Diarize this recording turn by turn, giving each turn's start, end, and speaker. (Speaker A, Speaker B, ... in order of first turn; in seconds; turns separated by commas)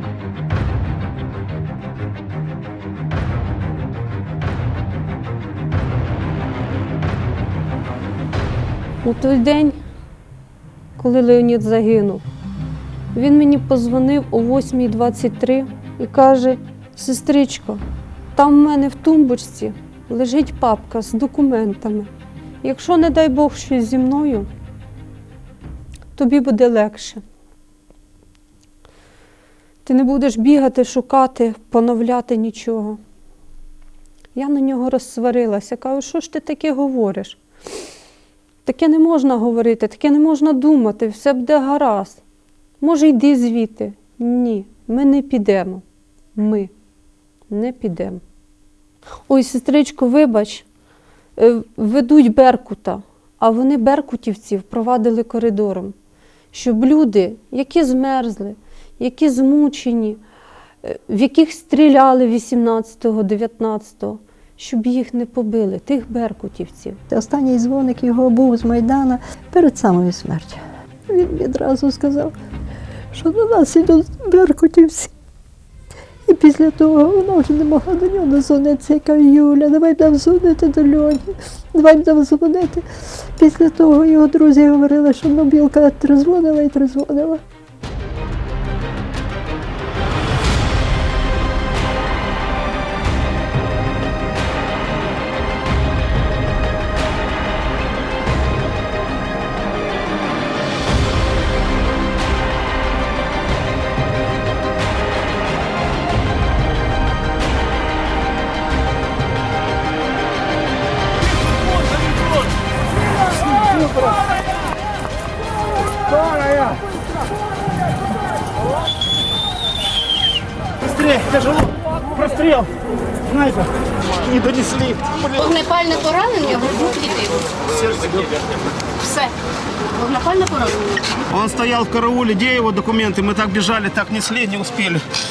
Speaker A: 9.0-9.8, Speaker A: 11.0-12.2, Speaker A: 13.1-17.8, Speaker A: 18.3-22.1, Speaker A: 22.6-24.5, Speaker A: 26.1-27.2, Speaker A: 29.8-33.0, Speaker A: 34.3-37.4, Speaker A: 38.6-42.2, Speaker A: 42.8-45.8, Speaker A: 46.3-46.7, Speaker A: 47.5-48.2, Speaker A: 49.3-50.6, Speaker A: 51.4-55.9, Speaker A: 56.5-60.2, Speaker A: 60.8-67.0, Speaker B: 67.1-72.3, Speaker B: 73.1-75.1, Speaker B: 76.3-82.8, Speaker B: 83.4-87.4, Speaker C: 120.8-122.7, Speaker C: 123.3-123.7, Speaker C: 124.2-125.4, Speaker D: 125.5-127.1, Speaker C: 127.7-128.2, Speaker D: 130.0-130.7, Speaker C: 131.3-135.0